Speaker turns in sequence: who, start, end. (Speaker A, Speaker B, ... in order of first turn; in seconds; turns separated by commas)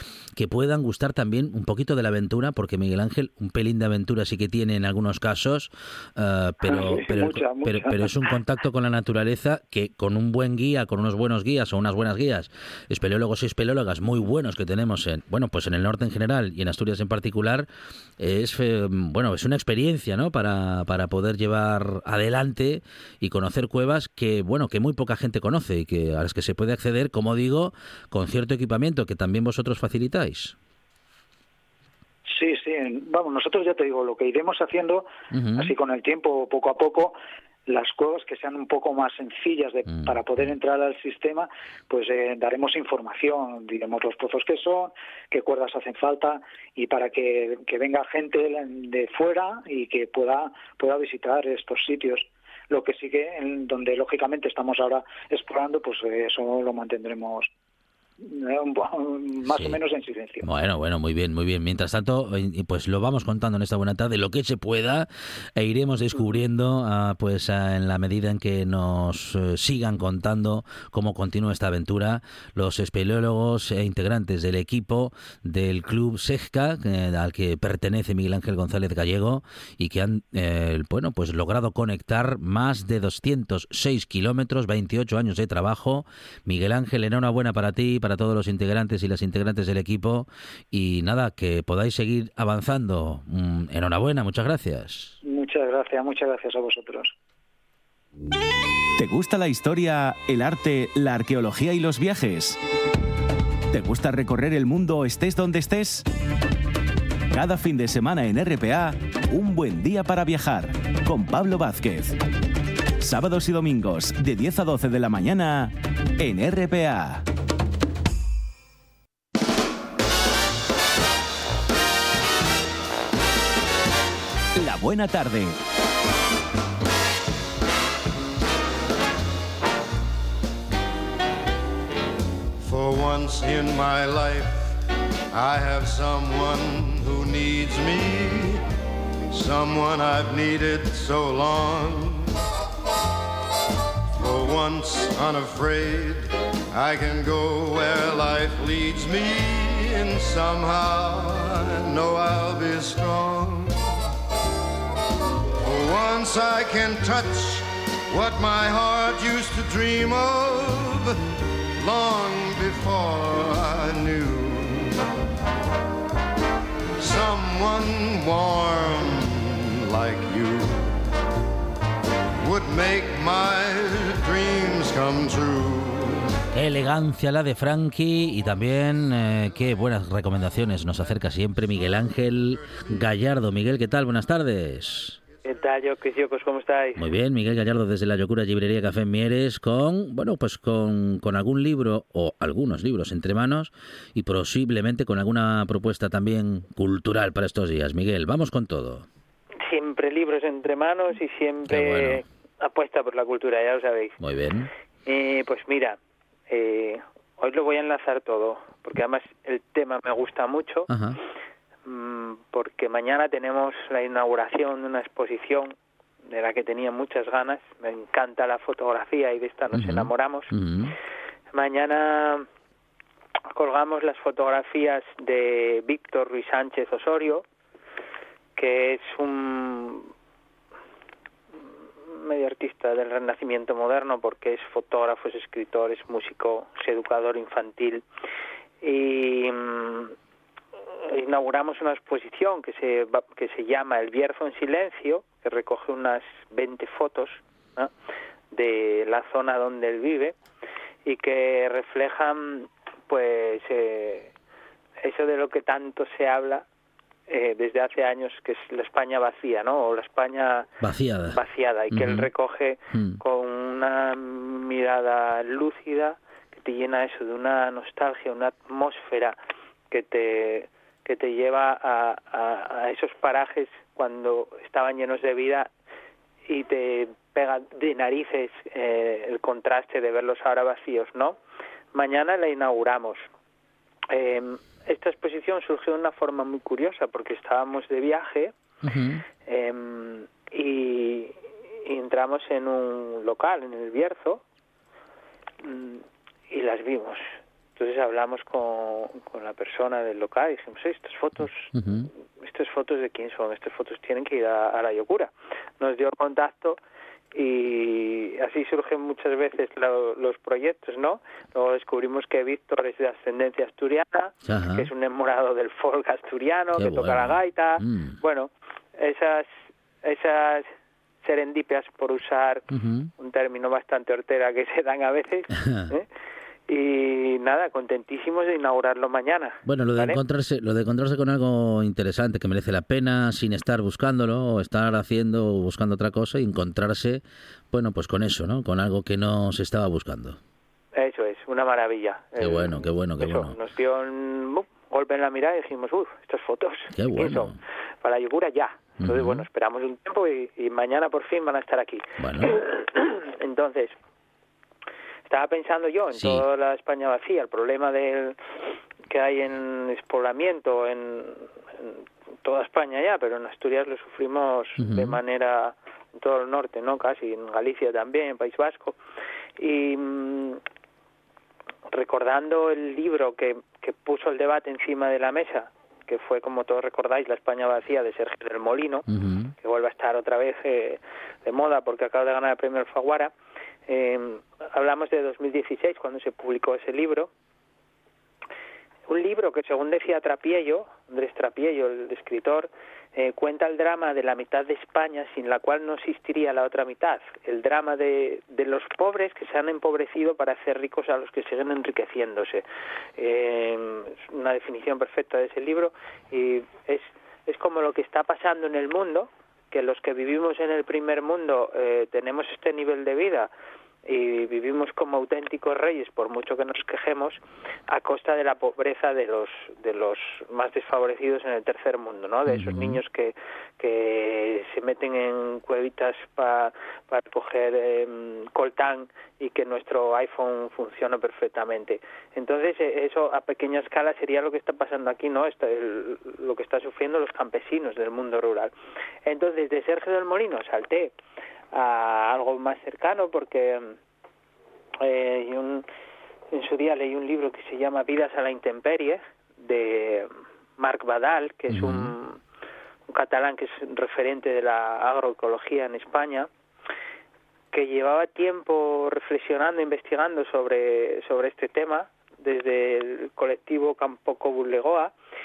Speaker A: 0.4-17.7, Speaker B: 6.7-8.3, Speaker A: 18.2-30.6, Speaker B: 32.3-57.5, Speaker A: 35.3-35.7, Speaker B: 58.2-60.5, Speaker A: 59.5-59.8, Speaker A: 60.4-95.2, Speaker B: 95.2-97.1, Speaker C: 99.0-102.6, Speaker C: 103.7-106.0, Speaker C: 107.3-112.2, Speaker C: 113.0-117.2, Speaker C: 124.6-125.6, Speaker D: 132.6-134.7, Speaker D: 135.3-138.6, Speaker D: 139.3-142.3, Speaker D: 144.2-153.9, Speaker D: 155.6-161.2, Speaker D: 161.8-165.0, Speaker D: 167.0-171.0, Speaker D: 172.4-176.4, Speaker A: 176.5-185.2, Speaker E: 185.4-187.0, Speaker A: 187.0-199.1, Speaker E: 199.6-204.2, Speaker A: 201.7-202.2, Speaker A: 204.2-204.7, Speaker E: 205.1-206.0, Speaker E: 206.5-210.9, Speaker A: 210.9-211.2, Speaker E: 211.9-215.8, Speaker E: 216.3-220.5, Speaker A: 219.7-220.9, Speaker E: 221.5-222.5, Speaker E: 223.5-227.4, Speaker E: 228.6-230.1, Speaker E: 232.1-238.0, Speaker E: 238.8-240.1, Speaker E: 241.1-247.9, Speaker E: 248.5-250.4, Speaker E: 251.1-254.3, Speaker E: 255.0-256.6, Speaker E: 257.3-260.7, Speaker A: 260.8-261.4, Speaker E: 261.3-269.4, Speaker A: 261.9-262.3, Speaker A: 262.9-263.2, Speaker E: 269.9-275.7, Speaker E: 276.5-281.4, Speaker E: 281.9-283.2, Speaker E: 284.1-288.5, Speaker A: 288.8-289.2, Speaker E: 289.4-294.4, Speaker E: 295.6-297.2, Speaker E: 297.8-301.7, Speaker A: 301.7-302.1, Speaker E: 302.4-306.8, Speaker E: 307.3-319.5, Speaker A: 314.5-314.9, Speaker A: 316.8-318.2, Speaker E: 320.0-320.7, Speaker E: 321.2-322.6, Speaker A: 322.7-323.1, Speaker E: 323.2-326.1, Speaker A: 325.6-325.9, Speaker E: 326.7-330.2, Speaker A: 329.6-340.4, Speaker E: 340.9-353.9, Speaker A: 342.4-343.6, Speaker A: 346.9-347.6, Speaker A: 349.0-349.4, Speaker A: 352.2-352.5, Speaker E: 355.3-358.4, Speaker A: 356.1-356.4, Speaker E: 359.1-369.0, Speaker A: 364.8-365.2, Speaker E: 369.6-370.6, Speaker E: 371.9-379.1, Speaker A: 379.1-379.5, Speaker E: 379.6-383.3, Speaker E: 383.9-387.3, Speaker E: 389.1-402.6, Speaker E: 403.2-413.5, Speaker E: 414.1-438.7, Speaker A: 422.5-423.0, Speaker E: 439.3-441.1, Speaker E: 441.7-443.9, Speaker E: 445.0-445.9, Speaker E: 446.5-452.4, Speaker A: 451.7-452.1, Speaker E: 453.1-456.5, Speaker E: 457.7-465.1